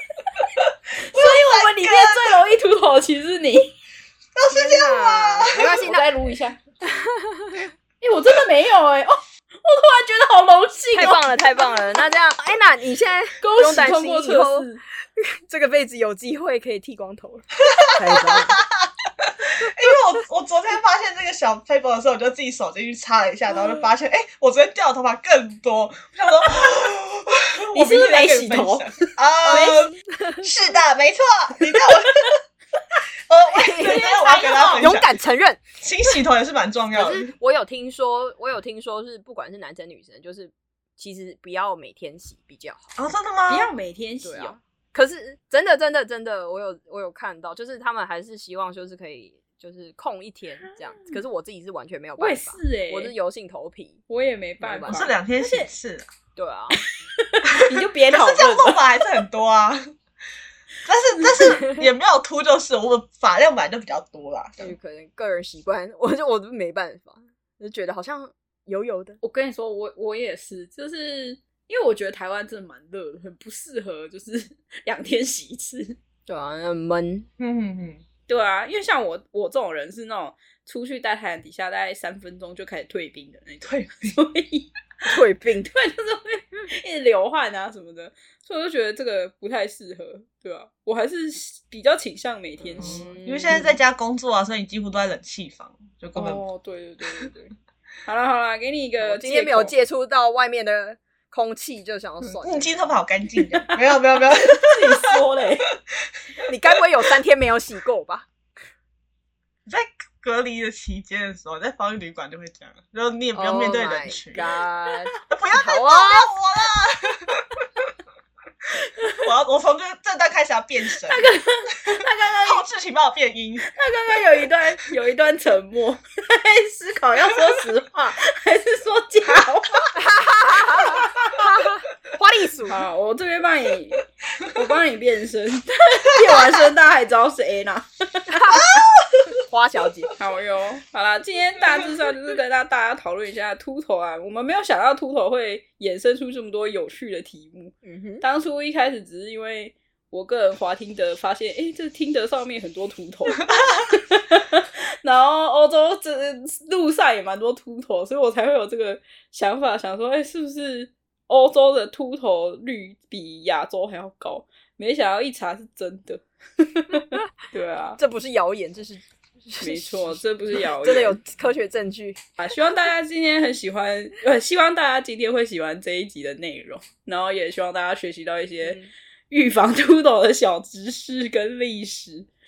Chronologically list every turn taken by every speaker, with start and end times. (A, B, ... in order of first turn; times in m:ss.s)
0:00.6-0:02.4 A
0:01.0-0:03.8 B
0:04.4-0:05.9 A
0:04.5-0:06.1 C
0:05.7-0:06.6 B
0:06.8-0:07.7 C
0:08.0-0:11.4 B
0:10.9-0:18.6 C
0:13.4-0:14.8 B
0:17.7-0:32.4 A
0:19.6-0:20.0 C
0:27.7-0:29.8 B
0:29.4-0:30.5 C
0:32.0-0:32.3 B
0:33.3-0:35.1 A
0:33.5-0:35.6 C
0:33.8-0:34.9 B
0:35.8-0:37.3 A
0:36.9-0:42.9 C
0:43.0-0:43.7 A
0:43.5-0:44.6 B
0:44.2-0:54.0 C
0:50.6-0:51.2 B
0:52.2-0:53.1 B
0:54.1-0:55.7 B
0:54.6-0:55.1 C
0:54.9-0:56.1 A
0:56.4-0:56.8 C
0:57.2-0:59.0 B
0:57.5-0:59.9 A
1:00.8-1:04.8 A
1:01.4-1:01.9 C
1:04.6-1:09.2 C
1:09.2-1:16.0 B
1:16.3-1:17.3 C
1:17.4-1:18.0 A
1:18.3-1:24.7 B
1:23.6-1:24.2 A
1:25.1-1:25.7 C
1:25.6-1:33.2 B
1:32.6-1:33.8 C
1:32.8-1:36.4 A
1:36.2-1:37.5 B
1:38.1-1:39.7 B
1:39.0-1:42.9 C
1:42.2-1:45.1 A
1:43.5-1:45.7 B
1:46.4-1:48.3 C
1:49.7-1:54.6 A
1:53.3-1:56.3 C
1:55.3-1:57.9 A
1:58.8-1:59.3 B
1:59.1-2:03.7 A
2:01.0-2:02.6 B
2:03.6-2:10.0 B
2:10.0-2:12.8 C
2:10.8-2:11.4 B
2:12.7-2:18.6 B
2:18.3-2:18.8 C
2:18.6-2:19.1 A
2:19.4-2:20.1 C
2:20.2-2:48.0 B
2:27.8-2:28.2 C
2:48.0-2:52.2 C
2:49.6-2:51.2 B
2:52.4-3:02.3 B
2:58.6-2:58.9 C